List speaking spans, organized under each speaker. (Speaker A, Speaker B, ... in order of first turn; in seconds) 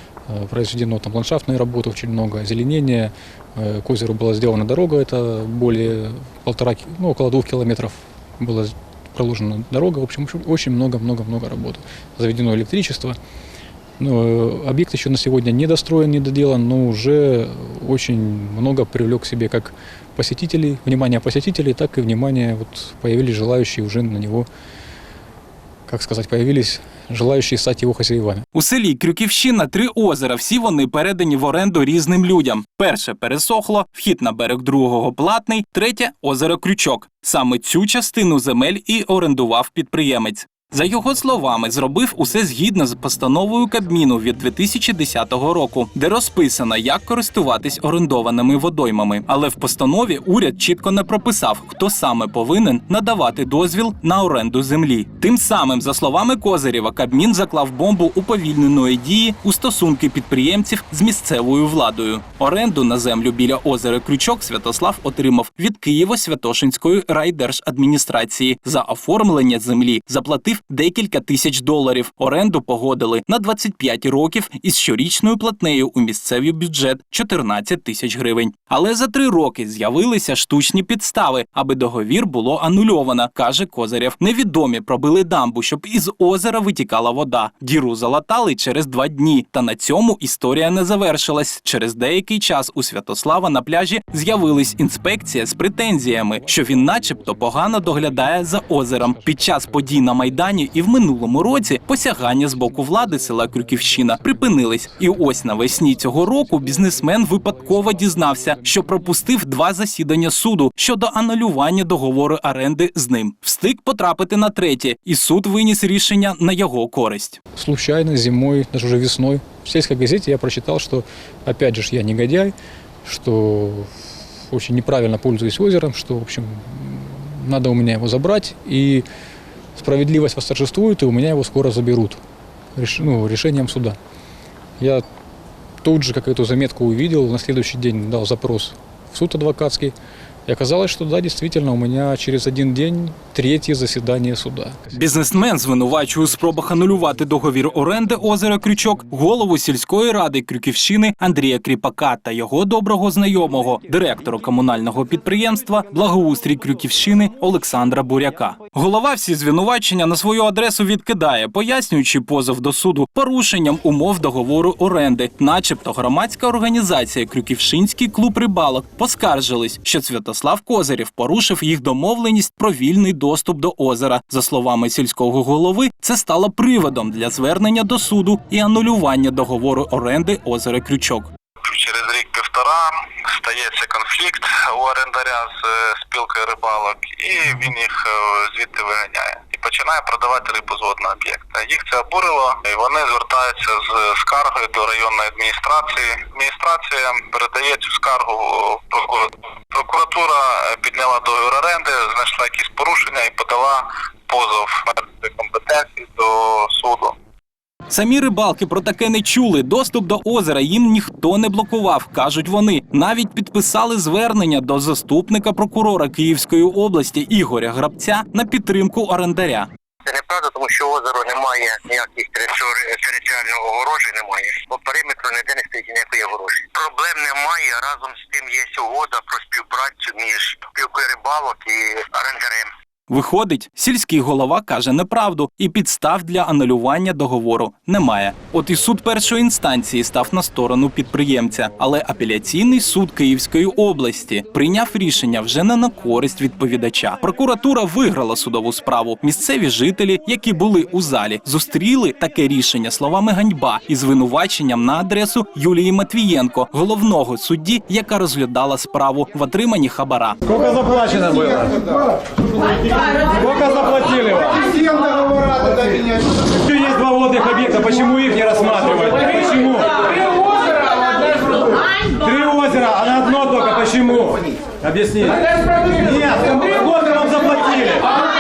Speaker A: 0.3-13.2, 14.0-24.5, 25.9-28.4, 41.2-42.1, 96.1-109.2, 117.6-123.9, 124.5-129.1, 129.8-132.2, 132.8-134.0, 134.8-135.0, 135.8-139.9, 140.5-149.2
Speaker B: 28.5-117.4, 144.9-181.3, 207.9-219.7, 233.1-260.7, 264.2-264.6, 277.7-278.0
Speaker C: 181.7-207.2
Speaker D: 220.1-232.7
Speaker E: 260.8-261.7, 266.8-269.2, 272.5-275.3, 276.1-277.3